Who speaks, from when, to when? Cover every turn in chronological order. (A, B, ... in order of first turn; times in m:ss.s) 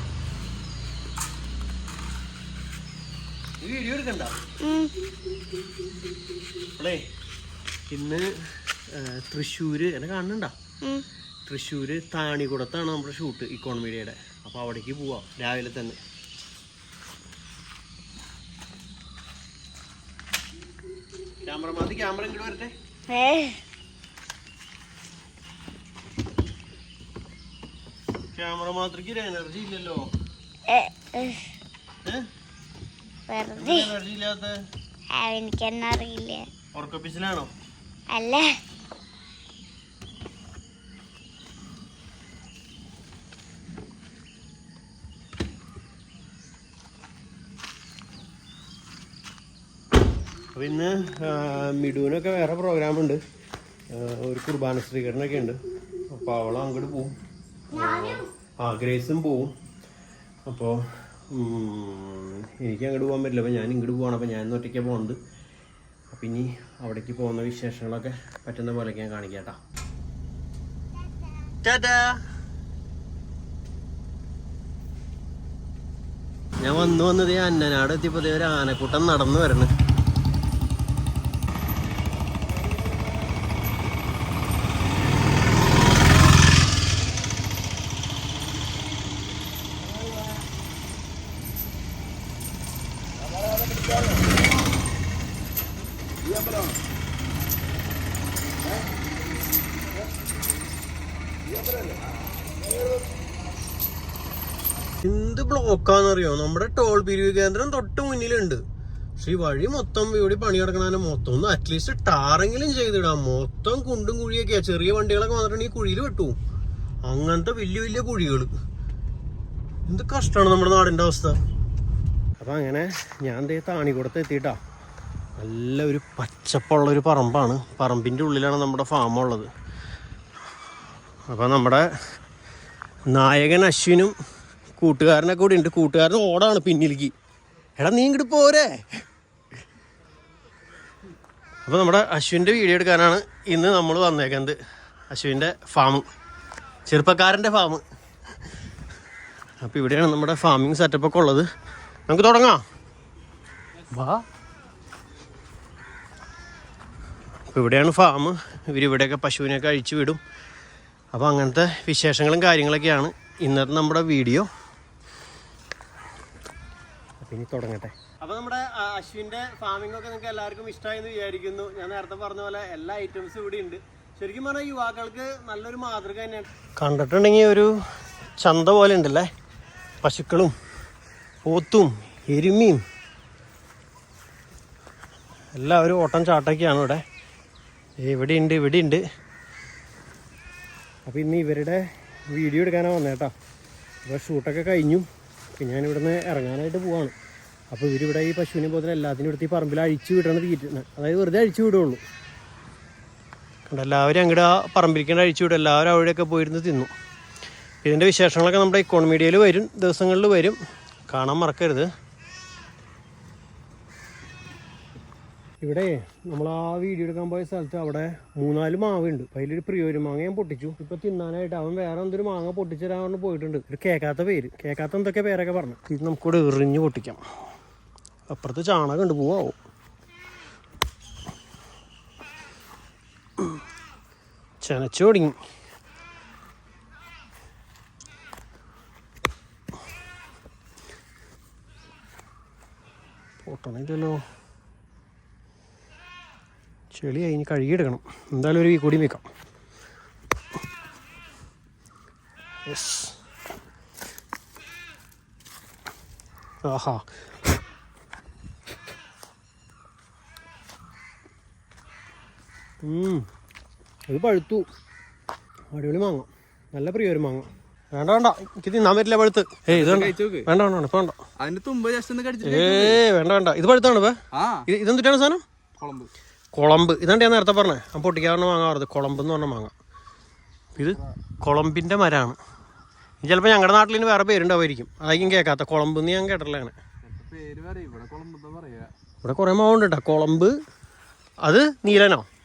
0:03.6-0:04.3 A
0:04.6-0:04.9 B
0:07.9-0:10.5 A
0:11.4-0:16.0 A
0:21.4-0:22.7 A
0:23.1-0:23.6 B
0:28.3-0:30.0 A
0:30.7-0:31.4 B
0:33.3-0:33.9 B
0:33.6-0:34.5 A
0:35.1-0:36.5 B
0:36.7-0:37.5 A
0:38.1-0:38.5 B
0:50.5-0:53.2 A
0:53.9-0:55.6 A
0:56.1-0:57.1 A
0:57.7-0:59.5 A
0:57.7-0:58.3 B
1:00.5-1:05.2 A
1:06.1-1:09.6 A
1:11.6-1:12.1 A
1:16.6-1:19.7 A
1:45.0-1:48.6 A
1:49.2-1:56.3 A
1:57.0-1:58.5 A
1:59.9-2:01.4 A
2:02.4-2:04.6 A
2:05.4-2:09.5 A
2:11.3-2:11.8 A
2:13.1-2:14.1 A
2:14.8-2:17.1 A
2:17.8-2:18.7 A
2:21.6-2:24.6 A
2:25.1-2:26.0 A
2:26.9-2:27.8 A
2:29.6-2:31.4 A
2:32.1-2:32.6 A
2:34.0-2:34.2 A
2:37.5-2:40.2 A
2:41.1-2:44.5 A
2:47.2-2:57.7 A
2:58.4-2:59.3 A
3:00.0-3:00.5 A
3:01.4-3:02.8 A
3:05.6-3:07.0 A
3:08.0-3:09.0 A
3:11.0-3:13.3 A
3:14.0-3:15.0 A
3:15.6-3:17.1 A
3:17.7-3:22.0 A
3:23.7-3:26.9 A
3:27.8-3:30.6 A
3:31.1-3:31.9 A
3:35.6-3:47.2 A
3:48.3-3:49.6 A
3:54.6-3:55.3 A
4:03.4-4:04.2 A
4:06.9-4:09.2 A
4:12.7-4:13.1 A
4:16.6-4:17.0 A
4:22.8-4:23.2 A
4:24.1-4:24.6 A
4:25.7-4:31.2 A
4:29.7-4:30.5 C
4:31.4-4:33.0 C
4:32.4-4:34.2 A
4:34.4-4:34.6 C
4:34.7-4:35.4 A
4:35.8-4:36.1 C
4:36.5-4:39.7 A
4:40.8-4:42.4 A
4:40.8-4:41.1 C
4:43.2-4:46.8 A
4:47.0-4:48.9 C
4:49.2-4:50.5 A
4:51.4-4:52.2 A